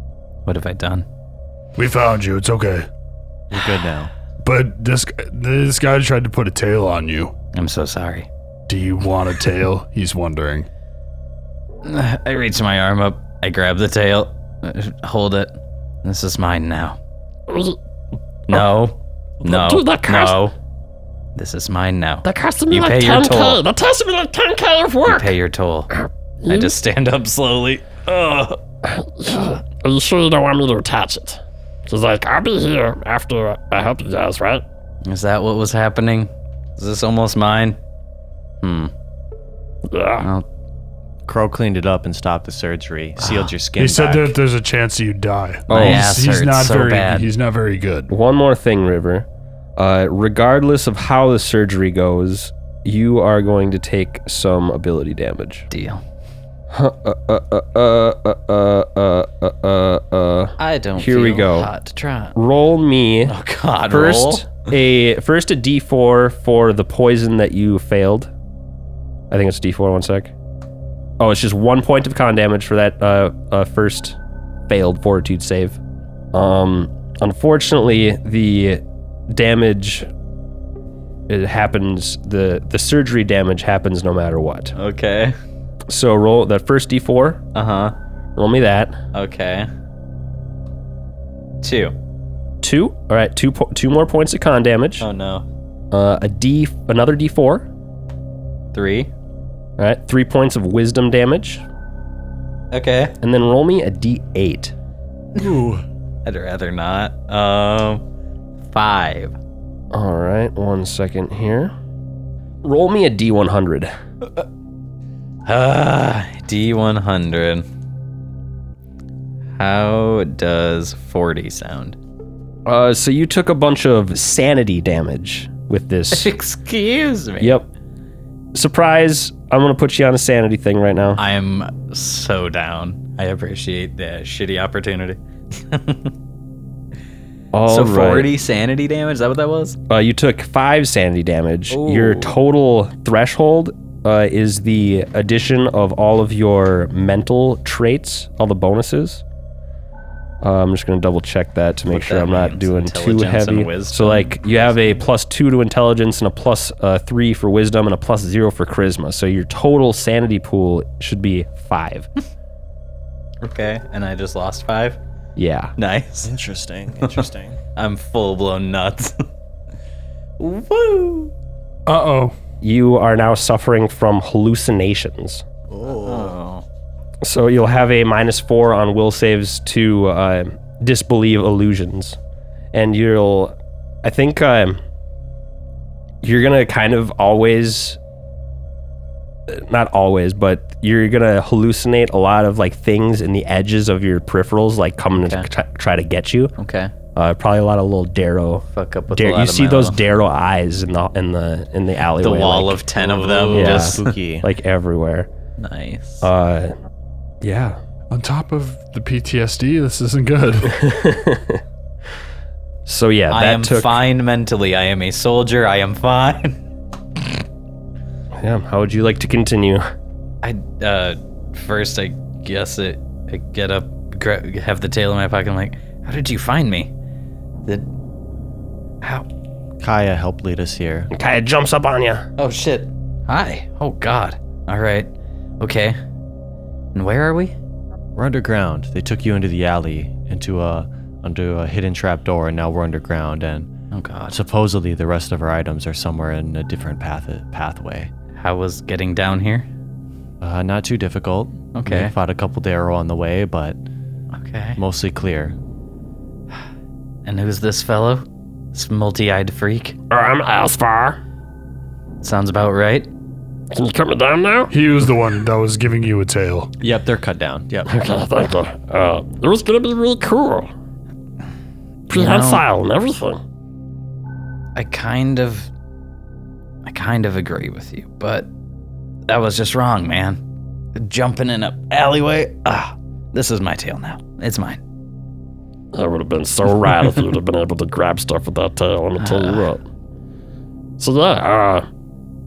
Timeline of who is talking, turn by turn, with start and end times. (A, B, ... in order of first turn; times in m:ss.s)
0:00.5-0:01.1 A
0:01.8-0:02.9 B
0:03.5-0:04.1 C
0:04.4-0:07.4 B
0:07.5-0:08.3 A
0:08.7-0:10.7 B
0:11.8-0:17.0 A
0:17.5-0:17.8 D
0:18.5-0:20.6 A
0:19.4-0:20.4 D
0:21.4-0:23.6 A
0:22.2-0:25.3 D
0:25.0-0:25.9 A
0:25.9-0:26.7 D
0:26.4-0:28.1 A
0:28.1-0:34.6 D
0:35.0-0:37.8 A
0:38.6-0:38.9 A
0:39.9-0:40.3 D
0:40.2-0:40.5 A
0:41.3-0:44.4 C
0:43.8-0:48.1 B
0:45.7-0:46.1 E
0:45.7-0:47.3 A
0:48.1-0:55.7 E
0:55.7-0:56.0 A
0:56.7-1:01.7 E
1:00.6-1:02.4 A
1:02.4-1:03.3 E
1:03.3-1:04.5 A
1:03.9-1:08.3 E
1:09.3-1:10.3 E
1:11.2-1:14.2 E
1:14.7-1:15.8 E
1:16.3-1:20.1 E
1:21.3-1:24.8 E
1:24.8-1:25.4 A
1:25.9-1:27.4 E
1:27.5-1:28.0 A
1:28.4-1:29.0 E
1:29.1-1:29.7 A
1:31.6-1:32.0 A
1:32.6-1:35.1 E
1:35.0-1:35.4 A
1:35.9-1:37.7 E
1:38.7-1:39.1 A
1:39.8-1:41.6 E
1:42.7-1:43.2 A
1:43.2-1:44.7 E
1:45.4-1:45.8 C
1:46.2-1:48.0 A
1:48.7-1:49.4 A
1:49.9-1:51.7 E
1:52.6-1:53.9 E
1:55.5-1:57.6 A
1:59.6-2:02.0 A
2:02.7-2:06.3 E
2:06.1-2:07.6 A
2:07.4-2:07.7 E
2:08.5-2:11.2 E
2:11.2-2:16.1 A
2:17.5-2:18.3 E
2:17.7-2:19.8 A
2:19.9-2:29.2 E
2:21.7-2:22.4 A
2:30.4-2:42.1 E
2:31.9-2:34.9 A
2:43.4-2:45.0 A
2:45.4-2:45.7 E
2:45.8-2:46.3 A
2:46.2-2:47.6 C
2:47.8-2:49.3 A
2:50.4-2:51.3 A
2:51.9-2:52.4 B
2:52.6-2:55.4 E
2:55.7-2:56.6 A
2:55.9-2:56.3 C
2:57.2-3:02.2 E
3:02.7-3:04.8 E
3:06.2-3:08.0 E
3:09.5-3:16.5 E
3:15.2-3:15.5 A
3:16.6-3:16.9 A
3:17.2-3:22.8 E
3:18.7-3:20.0 A
3:22.2-3:24.1 A
3:23.0-3:24.5 C
3:23.5-3:25.3 E
3:25.6-3:26.3 A
3:26.2-3:26.7 E
3:27.4-3:27.8 E
3:28.1-3:30.9 B
3:30.7-3:31.6 E
3:32.9-3:33.9 E
3:33.3-3:36.6 A
3:38.4-3:39.8 E
3:40.4-3:46.9 A
3:49.8-3:51.1 C
3:51.1-3:52.3 E
3:52.4-3:56.0 A
3:57.0-3:57.6 A
3:58.2-4:03.7 C
4:03.9-4:04.4 A
4:04.3-4:08.1 C
4:08.4-4:09.7 A
4:10.4-4:13.8 C
4:11.7-4:12.1 A
4:14.3-4:14.8 A
4:14.8-4:15.6 C
4:17.2-4:20.0 A
4:20.1-4:21.2 D
4:22.2-4:23.1 A
4:23.7-4:24.7 D
4:24.7-4:26.7 B
4:26.8-4:27.9 C
4:27.9-4:30.7 D
4:32.1-4:33.4 D
4:32.1-4:32.6 A
4:34.8-4:35.7 A
4:36.8-4:38.5 A
4:39.3-4:40.4 A
4:41.0-4:44.8 A
4:45.9-4:49.8 D
4:49.2-4:49.7 A
4:51.0-4:51.9 D